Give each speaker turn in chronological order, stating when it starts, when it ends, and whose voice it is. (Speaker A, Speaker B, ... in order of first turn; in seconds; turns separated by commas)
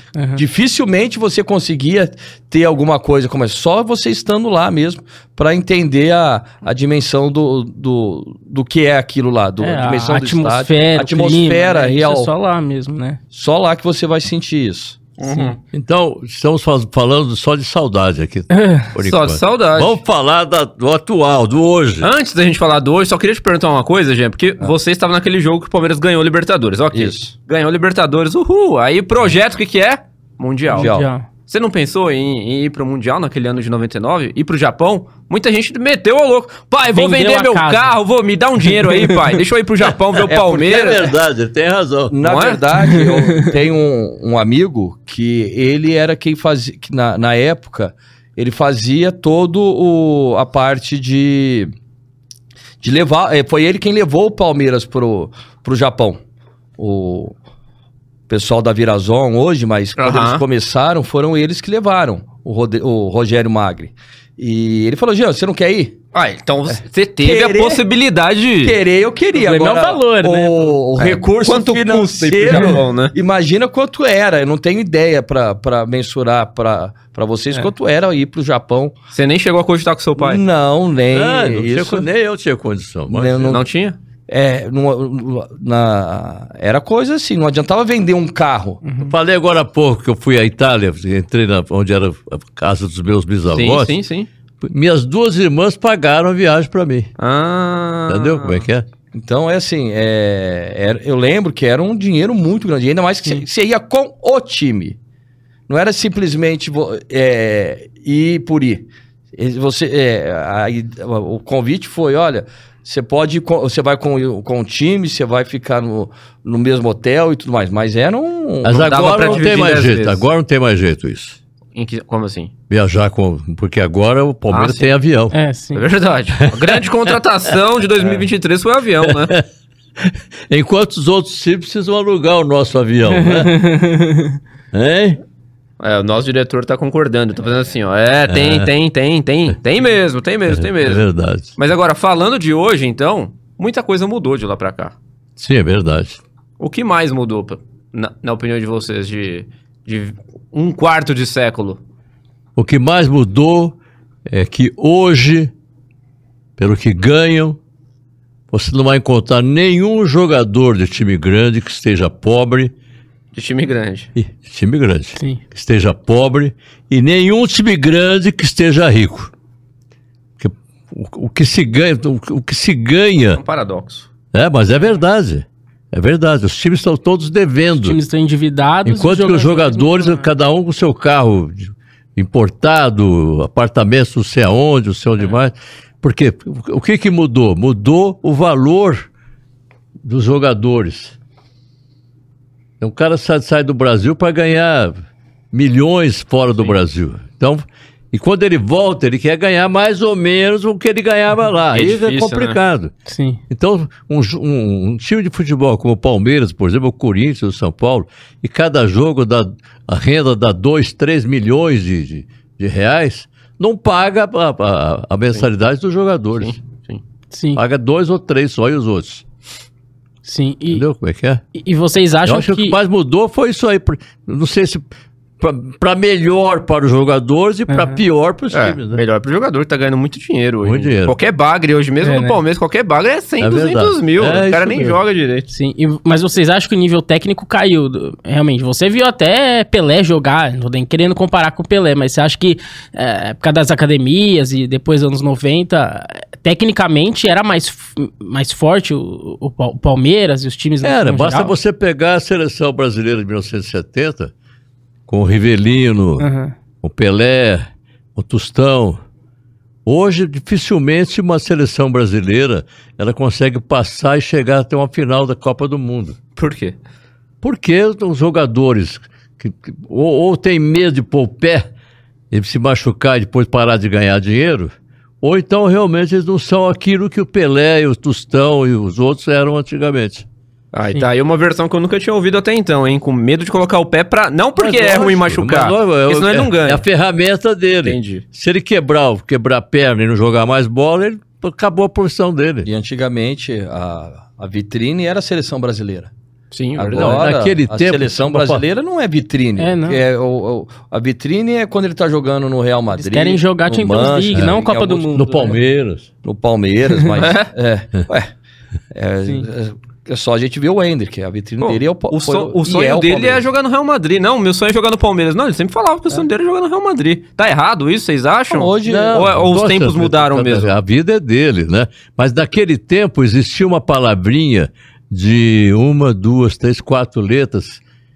Speaker A: 0.1-0.4, Speaker B: 0.4-12.3, Speaker A: 9.6-13.2, Speaker B: 13.3-15.0, Speaker C: 15.2-15.6, Speaker A: 15.2-15.5, Speaker D: 15.7-22.1, Speaker A: 18.5-18.9, Speaker C: 19.0-20.0, Speaker C: 22.0-30.9, Speaker B: 26.9-27.3, Speaker A: 30.7-31.3, Speaker B: 30.8-31.1, Speaker C: 31.5-41.0, Speaker A: 36.9-37.8, Speaker A: 38.8-39.4, Speaker B: 40.2-41.1, Speaker D: 40.7-42.1, Speaker B: 42.1-51.7, Speaker C: 42.2-42.6, Speaker B: 52.8-56.2, Speaker B: 56.8-57.4, Speaker B: 58.3-66.0, Speaker C: 60.0-60.4, Speaker C: 66.1-68.8, Speaker B: 67.2-67.8, Speaker B: 68.6-78.9, Speaker A: 69.3-70.8, Speaker C: 71.0-73.2, Speaker C: 79.1-80.4, Speaker B: 80.2-82.1, Speaker D: 81.1-83.5, Speaker B: 83.1-83.6, Speaker C: 83.4-84.0, Speaker B: 84.3-88.8, Speaker A: 88.8-89.1, Speaker D: 89.0-94.0, Speaker C: 93.5-94.3, Speaker D: 94.6-97.1, Speaker C: 97.2-98.7, Speaker D: 98.1-98.9, Speaker B: 99.1-105.0, Speaker B: 105.7-119.6, Speaker D: 118.6-121.4, Speaker C: 118.7-120.2, Speaker C: 121.7-122.5, Speaker D: 122.7-125.3, Speaker C: 124.5-124.9, Speaker A: 125.3-125.8, Speaker C: 125.7-129.4, Speaker D: 126.4-126.8, Speaker D: 129.0-129.4, Speaker D: 130.0-133.6, Speaker A: 133.1-134.4, Speaker D: 134.7-135.2, Speaker C: 135.8-141.0, Speaker D: 138.3-138.7, Speaker D: 140.5-141.5, Speaker C: 141.6-144.9, Speaker D: 145.4-146.2, Speaker C: 146.6-151.8, Speaker D: 152.6-155.5, Speaker D: 156.6-157.6, Speaker D: 158.5-162.7, Speaker C: 163.3-164.1, Speaker D: 164.2-169.3, Speaker D: 170.4-173.4, Speaker C: 173.4-174.1, Speaker D: 174.3-178.0, Speaker A: 177.8-180.3, Speaker D: 178.8-189.1, Speaker D: 190.0-191.2, Speaker D: 192.8-195.0, Speaker D: 195.5-202.9, Speaker C: 201.7-202.6, Speaker A: 203.1-203.4, Speaker D: 203.5-216.6, Speaker C: 216.4-217.0, Speaker A: 217.3-217.6, Speaker D: 217.6-219.2, Speaker A: 220.2-220.9, Speaker D: 220.7-221.4, Speaker A: 221.5-222.8, Speaker D: 222.3-224.8, Speaker D: 225.4-229.0, Speaker A: 227.7-228.0, Speaker C: 228.5-235.5, Speaker D: 230.6-231.2, Speaker A: 232.0-232.4, Speaker D: 233.4-235.0, Speaker A: 235.5-251.6, Speaker D: 250.8-254.3, Speaker D: 255.1-256.3, Speaker A: 256.2-256.5, Speaker D: 256.8-259.0, Speaker D: 259.9-266.2, Speaker C: 266.4-266.8, Speaker D: 267.4-271.7, Speaker D: 272.3-280.3, Speaker C: 280.7-286.8, Speaker D: 284.6-292.7, Speaker C: 287.8-288.2, Speaker B: 292.6-296.1, Speaker C: 296.5-297.3, Speaker B: 296.8-305.2, Speaker D: 296.9-298.6, Speaker A: 299.6-300.0, Speaker A: 302.9-305.6, Speaker D: 305.1-306.1, Speaker B: 306.2-308.3, Speaker C: 307.1-307.5, Speaker B: 308.9-313.4, Speaker C: 311.6-320.7, Speaker B: 318.5-319.3, Speaker D: 318.9-327.8